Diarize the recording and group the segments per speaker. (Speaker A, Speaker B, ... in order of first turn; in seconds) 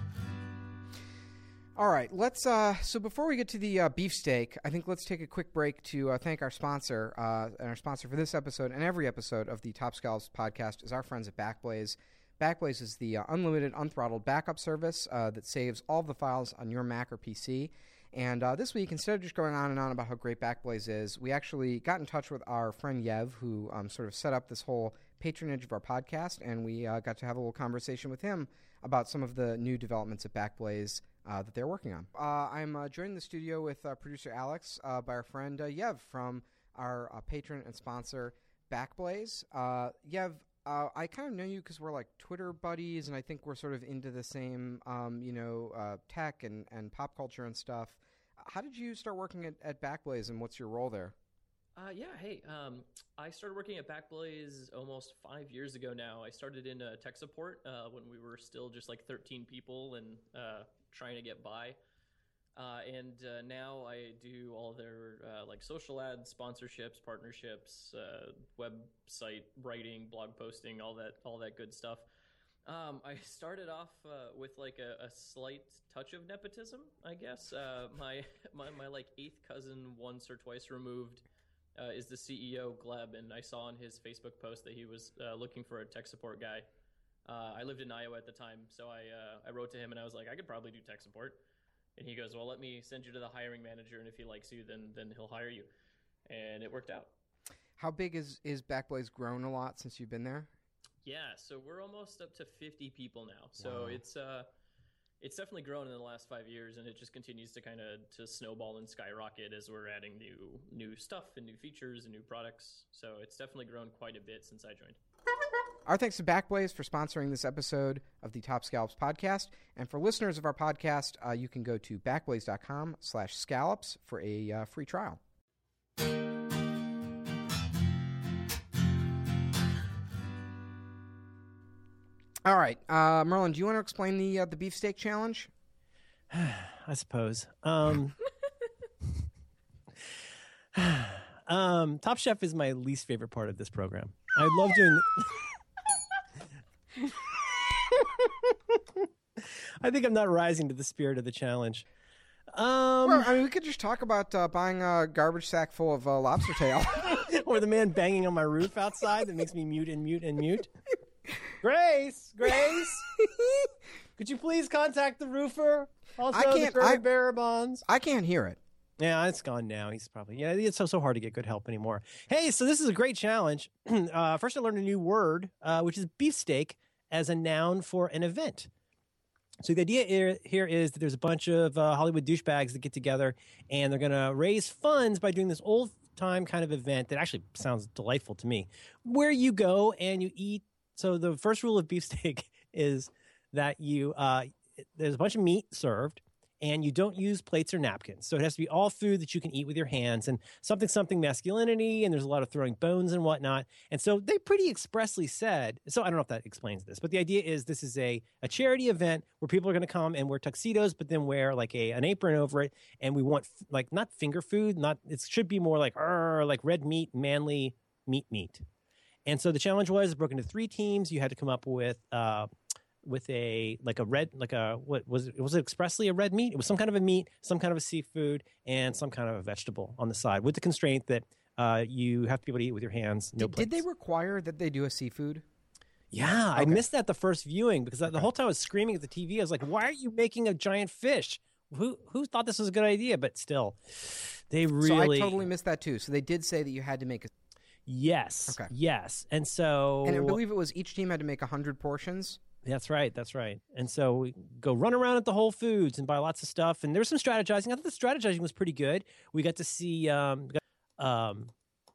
Speaker A: 1.8-51.1, 97.8-100.5, 103.6-104.0, 115.8-125.2, 132.4-135.5, 153.0-157.2, 163.2-163.7, 166.3-167.0, 167.8-168.6, 233.4-235.4, 236.5-236.8, 244.8-247.3, 250.0-252.4
Speaker B: 51.8-61.8, 62.5-72.0, 72.6-81.2, 81.8-86.7, 87.2-91.4, 92.0-95.7, 96.3-97.1, 101.0-104.5, 105.2-115.0
Speaker C: 136.3-138.1, 140.7-145.4, 147.9-151.8, 152.5-153.3, 157.2-160.7, 161.6-163.1, 164.2-167.8, 169.0-178.7, 179.6-218.6, 219.2-222.5, 223.0-233.8, 236.1-245.4, 247.9-250.4, 252.6-261.5